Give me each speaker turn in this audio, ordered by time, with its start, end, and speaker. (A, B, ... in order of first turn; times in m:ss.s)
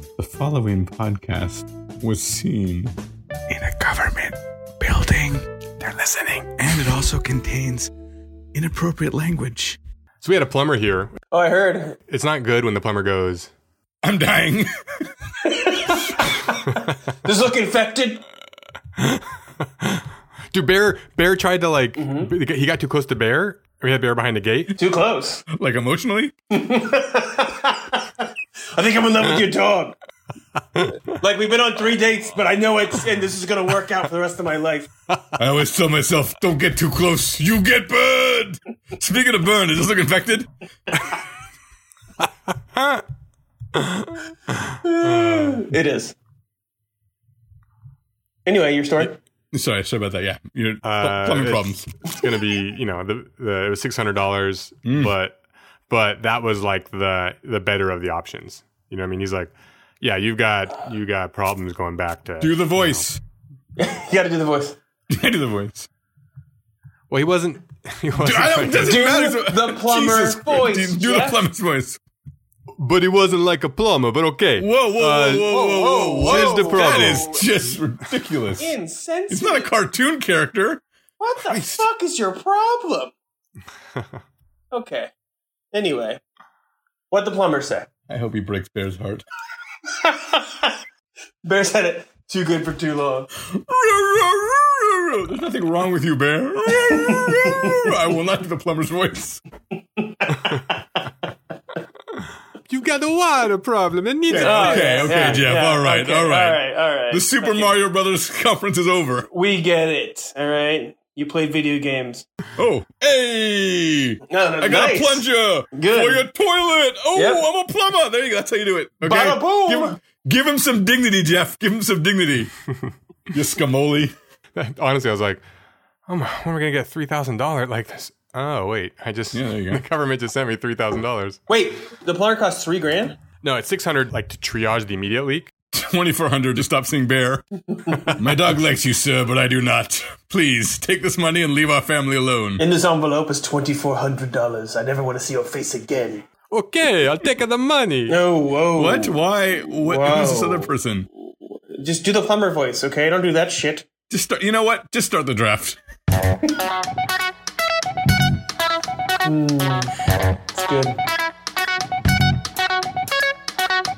0:00.2-0:02.9 A
0:03.5-0:07.9 A
0:08.5-0:09.8 A
0:10.2-0:11.1 B
0:11.3-0:12.0 C
0:12.1-0:13.5 B
0:14.0-0:14.7 A
0:15.5-0:16.7 C
0:17.2-0:18.2 C
0:19.0-0:19.2 B
0:19.8-0:24.7 B
0:22.0-0:22.3 C
0:24.8-0:25.4 C
0:25.5-0:26.3 A
0:26.5-0:30.0 C
0:31.2-0:34.9 C
0:35.4-0:40.5 A
0:42.8-0:43.0 B
0:43.8-0:45.6 B
0:44.8-0:46.2 C
0:48.5-0:49.2 C
0:49.5-0:51.9 A
0:50.8-0:55.4 B
0:54.8-0:55.1 A
0:55.9-1:03.1 B
1:02.4-1:03.2 A
1:03.8-1:04.8 C
1:05.1-1:05.9 A
1:07.1-1:09.1 B
1:08.2-1:12.0 A
1:08.8-1:11.4 C
1:12.8-1:15.6 B
1:14.6-1:18.7 A
1:15.4-1:17.4 C
1:16.2-1:17.3 B
1:18.6-1:19.7 C
1:19.3-1:20.8 A
1:21.2-1:23.1 C
1:21.5-1:21.9 A
1:24.7-1:25.1 C
1:25.7-1:26.2 C
1:27.1-1:27.9 C
1:28.1-1:29.2 A
1:29.9-1:30.7 C
1:31.4-1:33.3 C
1:33.4-1:39.4 A
1:36.7-1:37.9 C
1:40.0-1:41.0 C
1:42.7-1:45.5 B
1:44.3-1:49.3 A
1:44.3-1:47.7 C
1:49.3-1:52.3 C
1:52.6-2:02.5 A
1:54.3-1:56.2 C
1:57.1-1:57.4 C
1:59.0-2:00.0 C
2:03.3-2:04.1 A
2:04.6-2:05.4 B
2:06.1-2:11.4 B
2:09.3-2:09.8 A
2:11.5-2:13.2 C
2:13.4-2:15.5 B
2:15.7-2:17.5 A
2:18.1-2:22.6 A
2:22.6-2:26.3 C
2:26.5-2:28.2 B
2:28.1-2:29.2 C
2:28.8-2:31.1 A
2:29.7-2:30.7 C
2:31.4-2:33.9 C
2:34.1-2:35.8 A
2:39.2-2:40.0 C
2:40.5-2:41.0 C